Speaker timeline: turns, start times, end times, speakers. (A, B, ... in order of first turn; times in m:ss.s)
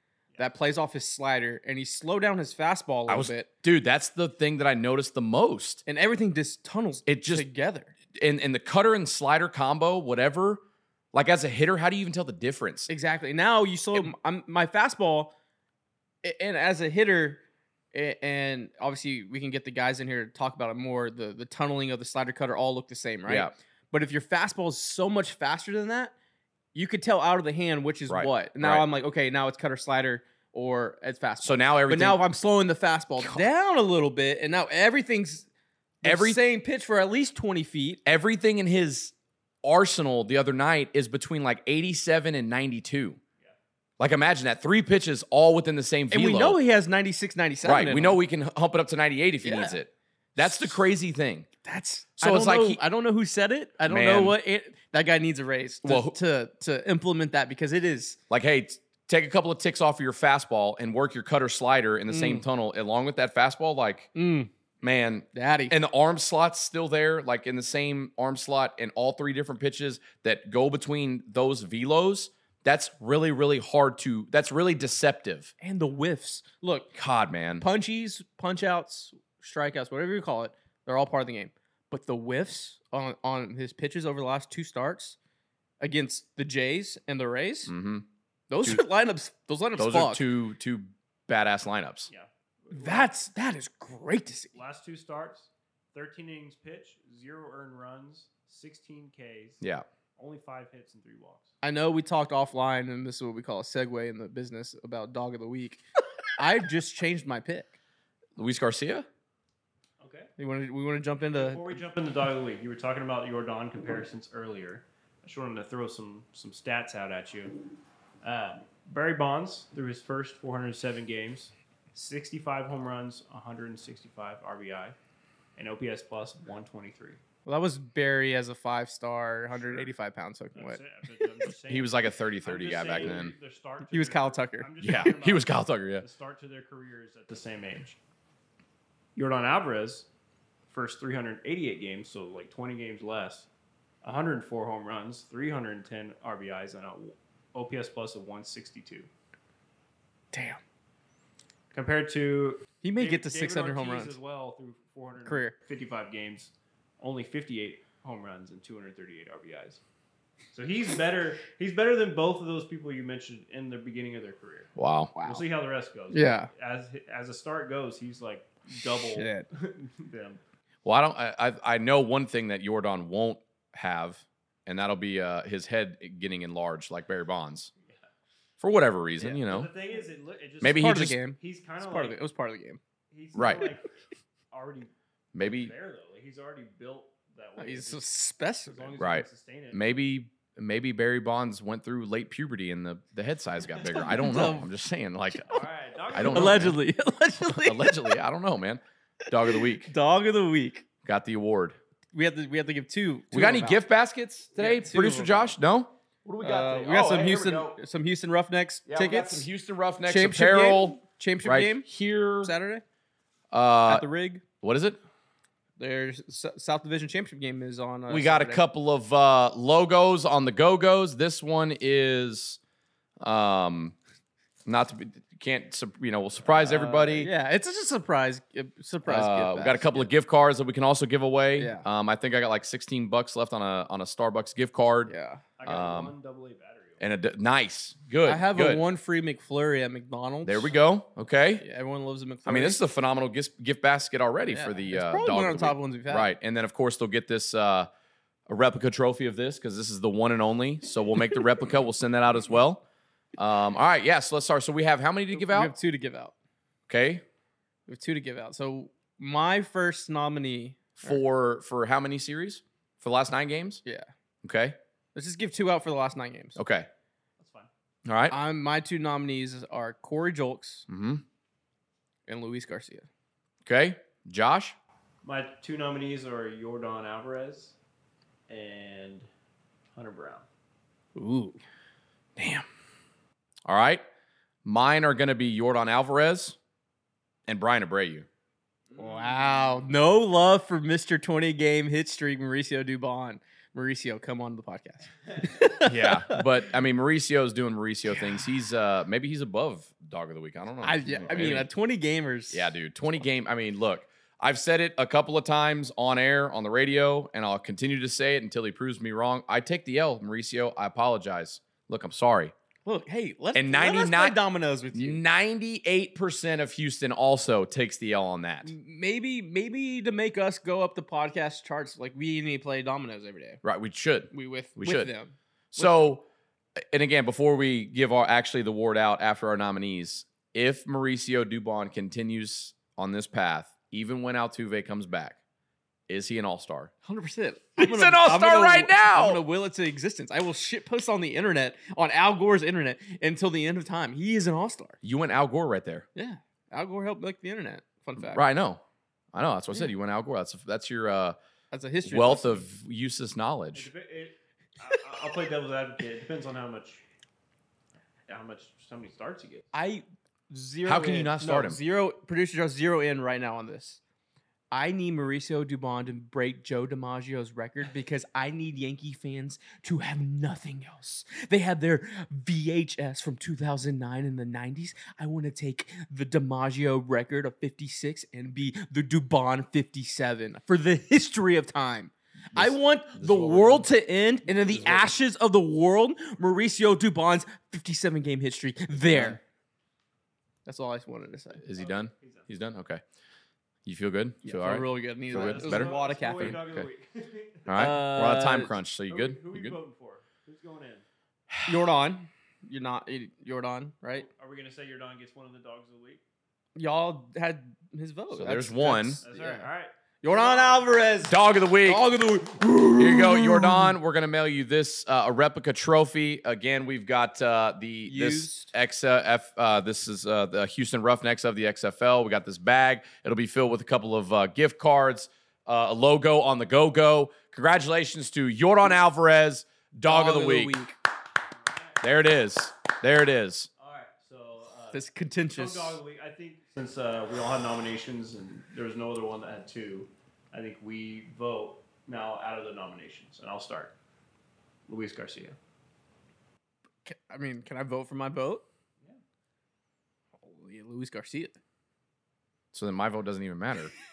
0:00.4-0:03.5 A
0:03.1-0:05.8 B
0:05.8-0:07.9 A
0:07.0-0:07.4 B
0:08.2-0:10.6 B
0:11.1-0:12.9 B
0:12.9-0:15.3 A
0:16.2-0:26.1 A
0:23.3-0:23.5 B
0:26.7-0:35.5 A
0:28.1-0:28.8 B
0:31.4-0:32.2 B
0:33.2-0:33.4 B
0:36.0-0:38.0 A
0:36.0-0:36.4 B
0:38.0-0:43.2 B
0:44.0-0:46.6 B
0:46.1-0:48.2 A
0:47.6-0:51.5 B
0:49.4-0:49.8 A
0:50.4-0:50.8 A
0:51.6-0:58.2 A
0:52.2-0:52.8 B
0:53.9-0:54.4 B
0:55.8-0:56.2 B
0:58.3-1:04.1 B
1:02.1-1:02.4 A
1:04.1-1:04.5 A
1:04.8-1:15.5 B
1:05.3-1:05.7 A
1:15.6-1:16.9 A
1:16.9-1:17.6 B
1:17.6-1:25.2 A
1:25.8-1:27.7 A
1:27.7-1:28.1 B
1:28.5-1:30.2 A
1:29.8-1:32.1 B
1:32.1-1:33.1 C
1:32.7-1:34.6 A
1:34.5-1:39.6 C
1:40.2-1:41.5 C
1:41.6-1:45.8 A
1:46.4-1:47.7 A
1:48.4-1:49.1 B
1:50.0-1:50.3 C
1:50.4-1:51.8 A
1:51.3-1:57.6 C
1:58.2-2:05.0 C
2:05.6-2:07.2 C
2:07.4-2:10.8 A
2:09.5-2:09.9 C
2:10.5-2:18.0 C
2:11.7-2:13.3 B
2:13.9-2:14.7 A
2:14.8-2:16.0 B
2:19.2-2:20.1 C
2:20.7-2:23.5 C
2:24.0-2:29.1 C
2:30.3-2:30.6 A
2:31.7-2:39.8 C
2:32.8-2:34.2 A
2:35.2-2:35.5 A
2:40.5-2:44.7 C
2:44.8-2:45.1 B
2:45.1-2:45.4 A
2:45.2-2:50.4 C
2:46.1-2:46.5 A
2:49.0-2:49.4 A
2:50.8-2:57.7 B
2:58.6-2:59.7 B
2:59.2-3:02.2 C
3:00.6-3:01.2 B
3:00.7-3:02.8 A
3:03.1-3:03.9 C
3:03.3-3:03.7 B
3:04.5-3:08.0 C
3:05.3-3:05.7 B
3:07.6-3:09.0 A
3:08.6-3:10.0 C
3:09.0-3:15.6 B
3:13.8-3:14.7 A
3:15.5-3:16.7 C
3:16.1-3:16.8 B
3:16.2-3:18.2 A
3:17.4-3:19.9 B
3:19.5-3:20.8 A
3:21.0-3:21.8 B
3:22.1-3:23.8 A
3:23.3-3:27.8 B
3:24.6-3:25.5 A
3:26.4-3:29.5 A
3:28.9-3:32.5 B
3:30.0-3:31.8 A
3:32.4-3:32.8 A
3:33.5-3:34.0 B
3:33.9-3:34.4 A
3:34.6-3:35.0 B
3:35.8-3:38.6 A
3:38.1-3:42.6 B
3:43.2-3:44.0 B
3:44.6-3:47.3 B
3:46.5-3:50.1 A
3:49.0-3:55.1 B
3:51.6-3:51.8 A
3:55.1-3:55.4 A
3:55.6-3:57.0 C
3:55.6-3:56.1 B
3:57.0-3:58.8 B
3:58.2-4:00.8 A
4:00.4-4:01.6 B
4:01.6-4:02.8 A
4:02.4-4:07.9 B
4:04.5-4:06.3 A
4:08.5-4:12.8 B
4:13.4-4:15.7 B
4:15.3-4:16.3 A
4:16.9-4:17.2 B
4:17.9-4:21.2 A
4:21.0-4:23.8 B
4:24.4-4:24.8 B
4:25.1-4:26.6 A
4:26.6-4:26.9 B
4:27.4-4:27.7 C
4:28.0-4:28.4 B
4:28.3-4:30.8 A
4:30.9-4:31.2 B
4:32.3-4:33.1 A
4:33.6-4:34.8 B
4:35.2-4:37.7 C
4:38.5-4:39.3 C
4:40.0-4:40.4 C
4:41.2-4:41.6 A
4:42.4-4:42.6 B
4:43.6-4:44.0 B
4:44.6-4:46.6 B
4:47.5-4:48.3 B
4:48.9-4:49.9 C
4:48.9-4:56.4 A
4:55.8-5:01.7 B
4:58.1-4:58.4 A
5:00.8-5:02.7 A
5:02.5-5:12.5 B
5:12.8-5:15.2 A
5:13.5-5:14.4 B
5:14.9-5:18.7 B
5:18.6-5:23.6 A
5:23.6-5:25.1 B
5:24.3-5:26.1 A
5:25.7-5:26.3 B
5:26.9-5:35.4 B
5:36.1-5:36.9 B
5:37.0-5:45.0 A
5:37.8-5:39.4 B
5:45.0-5:46.0 B
5:46.1-5:48.4 A
5:48.2-5:48.8 B
5:49.3-5:51.4 B
5:51.7-5:52.7 A
5:52.0-5:53.9 B
5:53.7-5:57.0 C
5:58.3-5:59.7 C
5:59.7-6:04.0 A
6:00.8-6:01.8 B
6:04.7-6:29.4 A
6:22.5-6:23.9 B
6:24.7-6:25.1 B
6:29.0-6:29.4 B
6:30.6-6:31.6 A
6:31.6-6:33.0 B
6:31.8-6:32.5 C
6:33.8-6:36.8 B
6:34.4-6:36.8 A
6:35.3-6:37.8 C
6:37.7-6:39.8 B
6:37.7-6:38.7 A
6:39.1-6:41.0 C
6:41.5-6:41.9 B
6:41.6-6:44.3 A
6:44.2-6:46.2 C
6:46.8-6:49.7 A
6:48.3-6:49.2 B
6:49.2-6:51.0 C
6:50.2-6:53.9 A
6:51.2-6:52.1 B
6:53.0-7:10.7 B
6:58.0-6:58.7 A
7:10.1-7:11.0 A
7:11.5-7:12.2 C
7:12.0-7:13.7 B
7:13.8-7:15.0 C
7:14.9-7:16.0 A
7:15.5-7:23.9 C
7:24.9-7:25.6 C
7:27.0-7:28.6 A
7:30.4-7:31.6 A
7:32.7-7:33.9 B